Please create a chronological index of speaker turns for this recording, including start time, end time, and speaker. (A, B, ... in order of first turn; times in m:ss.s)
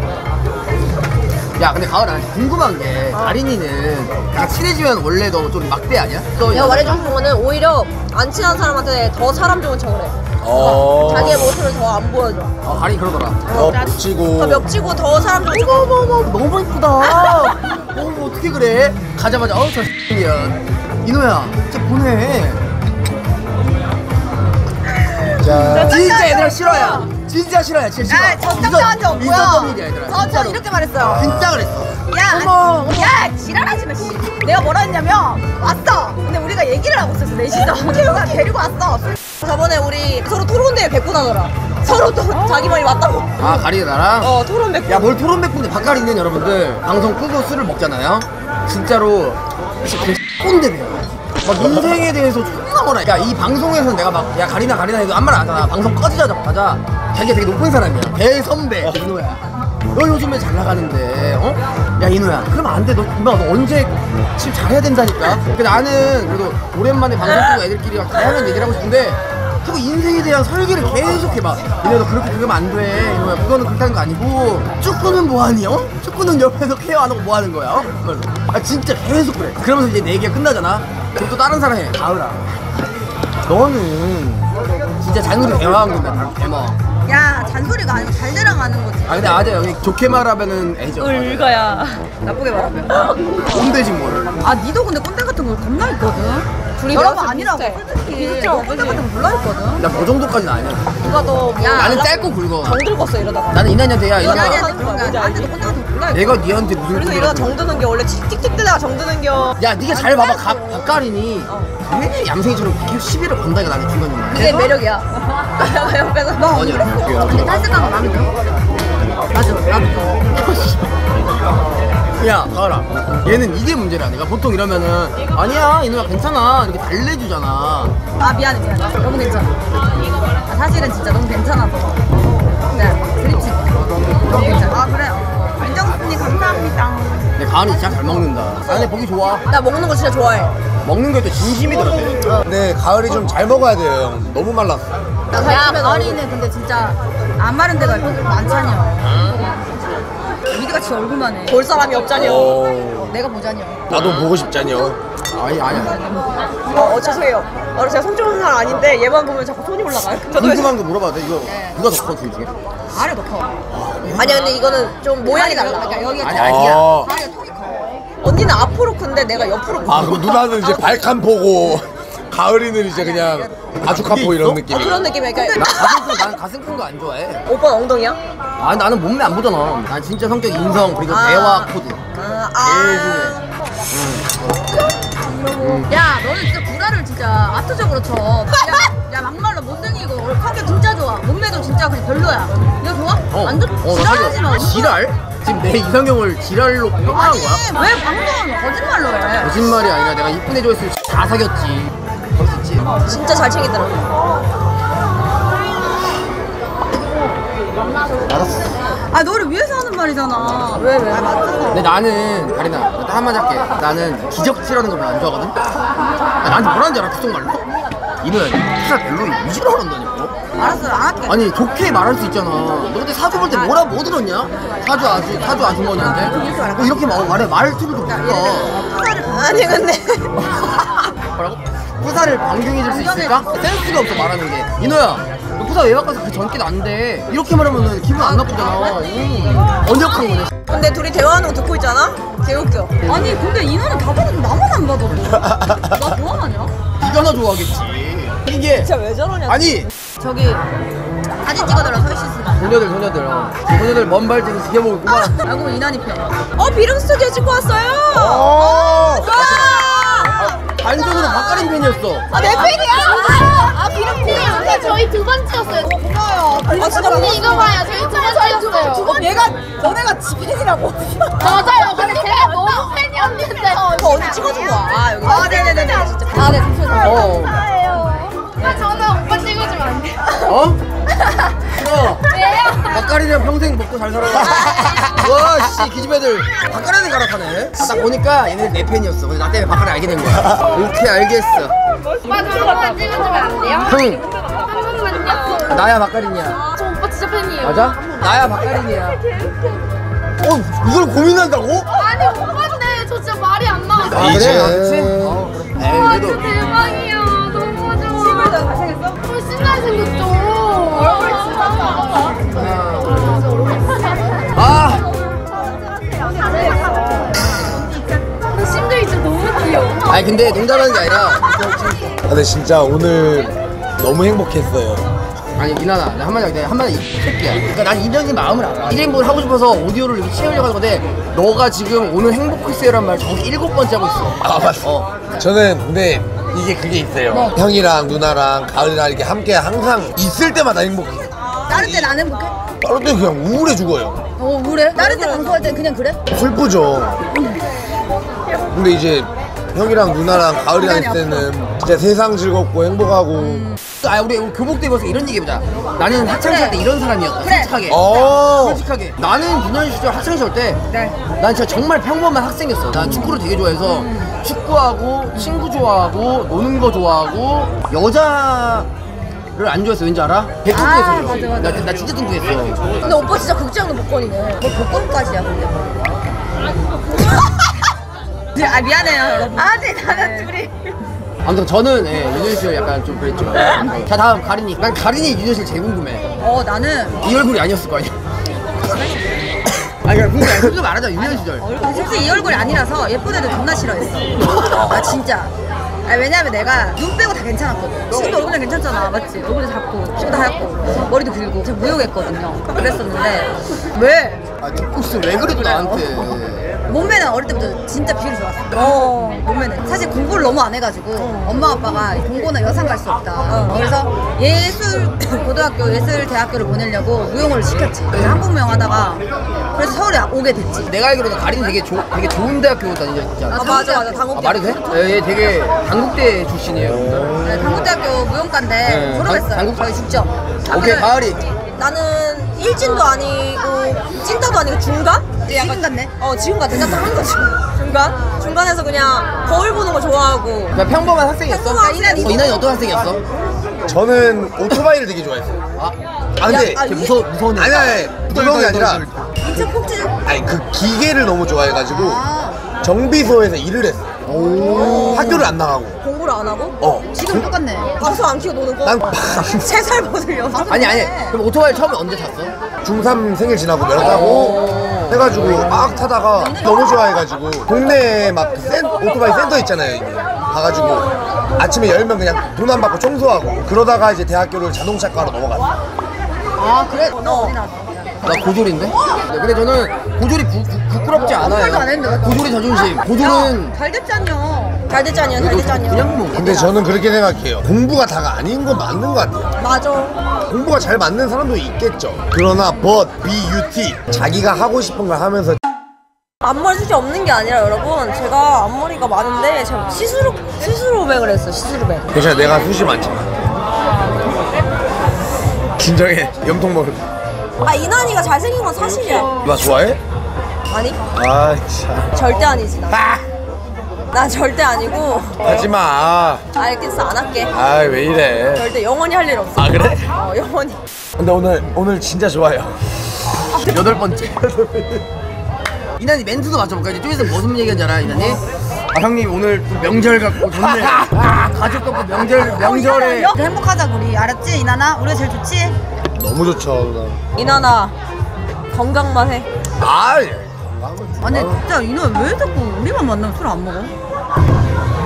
0:01.6-0:07.1 A
0:03.1-0:03.4 B
0:06.5-0:12.6 B
0:10.4-0:11.6 C
0:12.6-0:13.5 A
0:13.5-0:14.7 C
0:13.5-0:13.8 B
0:14.4-0:15.9 B
0:15.4-0:22.6 A
0:17.0-0:17.6 B
0:25.4-0:26.0 C
0:25.5-0:27.1 D
0:25.8-0:33.1 A
0:28.1-0:31.5 D
0:32.1-0:36.4 D
0:36.3-0:43.6 B
0:37.1-0:38.5 D
0:42.3-0:43.0 D
0:43.4-0:44.3 A
0:44.2-0:45.2 B
0:44.9-1:22.4 A
1:23.4-1:26.8 A
1:27.1-1:29.5 D
1:29.1-1:31.5 A
1:31.0-1:33.2 B
1:33.4-1:34.4 A
1:34.4-1:39.8 D
1:36.8-1:39.1 B
1:39.8-1:41.0 A
1:41.0-1:45.8 B
1:41.6-1:42.8 A
1:43.5-1:44.7 A
1:44.2-1:46.5 D
1:46.1-1:47.6 A
1:46.9-1:49.6 B
1:49.6-1:54.7 A
1:49.9-1:50.8 D
1:51.5-1:51.7 B
1:54.3-1:57.1 B
1:56.3-1:58.3 D
1:56.5-1:57.6 A
1:59.3-2:00.3 D
2:02.2-2:08.0 A
2:08.2-2:09.5 D
2:10.5-2:12.0 D
2:12.7-2:17.3 D
2:17.4-2:19.4 A
2:19.5-2:20.6 B
2:20.8-2:22.4 A
2:22.4-2:24.9 C
2:25.3-2:26.2 B
2:25.4-2:29.3 D
2:30.5-2:31.6 D
2:31.5-2:32.6 B
2:32.1-2:33.2 C
2:33.1-2:33.8 D
2:33.9-2:35.0 C
2:35.3-2:36.1 A
2:35.7-2:37.3 D
2:36.7-2:40.8 B
2:40.3-2:42.5 A
2:41.5-2:41.8 D
2:42.9-2:43.5 D
2:44.0-2:44.5 A
2:44.1-2:46.3 B
2:45.2-2:48.0 D
2:46.2-2:47.1 A
2:46.3-2:47.1 C
2:48.2-2:50.3 B
2:49.9-2:55.2 C
2:53.0-2:53.4 D
2:53.8-2:54.6 A
2:54.7-2:56.2 B
2:55.3-2:56.0 D
2:55.5-2:57.4 A
2:57.5-2:58.2 B
2:58.6-3:02.0 A
3:01.1-3:03.5 B
3:02.6-3:03.4 A
3:03.9-3:04.3 A
3:05.4-3:15.0 D
3:05.6-3:05.9 A
3:13.3-3:17.7 A
3:17.1-3:19.6 D
3:19.4-3:23.0 A
3:22.9-3:24.0 B
3:28.3-3:28.7 A
3:29.1-3:31.9 D
3:30.8-3:31.2 B
3:31.7-3:35.6 A
3:36.4-3:37.7 A
3:38.2-3:40.7 A
3:40.6-3:41.4 D
3:41.3-3:48.9 A
3:43.4-3:43.8 D
3:44.5-3:47.4 D
3:48.0-3:49.9 D
3:49.3-3:50.4 B
3:51.2-4:00.6 A
3:52.9-3:53.6 D
3:58.2-3:59.1 D
4:00.7-4:03.0 B
4:03.0-4:06.7 D
4:05.3-4:06.0 C
4:07.0-4:08.9 A
4:08.7-4:09.8 B
4:09.5-4:09.9 A
4:10.2-4:10.7 D
4:11.4-4:12.8 D
4:12.6-4:15.4 A
4:15.4-4:16.4 D
4:16.6-4:20.4 B
4:18.1-4:19.5 C
4:18.6-4:19.7 D
4:19.3-4:19.8 A
4:20.4-4:22.3 A
4:20.4-4:21.7 D
4:21.0-4:21.7 B
4:22.3-4:23.7 B
4:22.3-4:25.0 D
4:23.5-4:25.8 E
4:25.6-4:30.6 D
4:26.8-4:31.7 B
4:27.2-4:28.5 E
4:31.4-4:34.0 E
4:31.6-4:38.8 D
4:34.0-4:37.2 B
4:37.0-4:37.6 A
4:38.6-4:38.9 B
4:38.8-4:40.3 E
4:40.4-4:40.8 A
4:41.7-4:42.3 A
4:42.8-4:51.8 A
4:44.5-4:45.1 C
4:52.3-4:55.6 E
4:53.8-4:54.2 A
4:55.3-4:55.7 B
4:55.6-4:56.7 A
4:56.8-4:57.7 E
4:57.6-4:59.2 A
4:58.4-4:59.6 B
5:00.4-5:01.9 A
5:02.1-5:04.1 E
5:04.1-5:06.6 A
5:04.1-5:05.5 C
5:06.0-5:08.4 E
5:07.8-5:09.1 B
5:09.2-5:11.8 E
5:12.5-5:13.4 A
5:13.5-5:13.9 E
5:14.5-5:15.1 A
5:16.6-5:17.8 D
5:18.5-5:20.1 E
5:20.0-5:22.1 A
5:22.2-5:25.1 C
5:25.6-5:35.1 A
5:34.4-5:41.3 C
5:37.3-5:37.6 D
5:41.5-5:42.2 B
5:41.7-5:42.6 D
5:42.8-5:44.2 C
5:44.4-5:46.2 D
5:45.0-5:45.7 B
5:46.3-5:47.2 C
5:47.3-5:47.6 D
5:48.7-5:53.7 C
5:50.7-5:51.5 D
5:53.4-5:53.8 D
5:54.0-6:00.8 A
5:56.3-5:56.8 D
5:57.4-5:58.4 D
5:57.9-5:58.9 C
6:00.9-6:01.2 D
6:01.4-6:08.9 A
6:02.9-6:03.4 C
6:03.8-6:04.3 D
6:05.4-6:05.6 D
6:09.6-6:13.4 A
6:10.7-6:11.9 D
6:13.0-6:14.8 B
6:14.6-6:15.7 D
6:18.6-6:20.5 D
6:19.5-6:20.9 B
6:21.4-6:26.3 A
6:26.4-6:27.2 D
6:27.2-6:28.2 A
6:28.8-6:29.2 D
6:30.0-6:31.7 A
6:31.3-6:35.5 D
6:31.6-6:32.8 B
6:36.0-6:44.4 D
6:44.6-6:46.7 A
6:45.3-6:46.3 D
6:46.9-6:59.2 D
6:48.7-6:49.4 B
6:51.2-6:51.7 B
6:53.5-6:53.8 B
6:59.8-7:00.9 D
7:00.8-7:07.4 A
7:03.5-7:05.2 D
7:03.5-7:04.8 B
7:07.0-7:07.8 C
7:07.4-7:11.1 D
7:08.8-7:10.0 A
7:10.6-7:11.4 A
7:11.8-7:20.8 B
7:12.8-7:13.1 D
7:15.5-7:16.1 D
7:20.7-7:23.2 A
7:21.5-7:22.6 B
7:21.8-7:22.5 D
7:23.9-7:25.6 C
7:26.4-7:26.8 C
7:26.4-7:27.2 B
7:26.5-7:29.7 A
7:27.5-7:29.0 C
7:29.4-7:30.2 B
7:30.2-7:32.2 C
7:31.9-7:32.6 D
7:32.8-7:34.1 C
7:34.3-7:35.5 A
7:34.5-7:34.8 D
7:34.6-7:35.4 B
7:34.7-7:36.0 C
7:36.0-7:36.8 B
7:36.8-7:37.1 A
7:37.1-7:38.1 D
7:38.0-7:40.9 B
7:38.8-7:39.7 C
7:40.5-7:41.4 D
7:40.7-7:42.5 A
7:42.8-7:55.7 C
7:43.9-7:46.1 A
7:46.4-7:47.0 D
7:56.6-7:58.7 D
7:57.2-7:57.6 B
7:58.2-8:03.8 A
8:01.1-8:04.8 D
8:04.9-8:06.1 B
8:05.4-8:06.7 A
8:06.3-8:09.5 C
8:09.6-8:10.2 B
8:10.5-8:15.6 C
8:16.4-8:22.2 B
8:22.1-8:23.4 C
8:25.8-8:27.0 C
8:27.6-8:29.4 B
8:29.4-8:30.0 C
8:30.7-8:31.0 B
8:31.1-8:32.2 C
8:32.1-8:33.0 B
8:32.9-8:33.2 C
8:34.1-8:35.4 B
8:35.4-8:36.4 C
8:36.5-8:37.5 B
8:37.5-8:38.7 C
8:38.5-8:40.8 B
8:39.6-8:40.0 C
8:41.2-8:42.9 C
8:43.6-8:44.4 A
8:44.4-8:45.0 C
8:46.0-8:53.4 A
8:50.5-8:51.5 C
8:52.4-8:55.8 D
8:56.2-8:57.2 C
8:57.4-8:58.0 B
8:58.7-8:59.5 B
8:59.8-9:01.6 C
9:01.2-9:03.9 D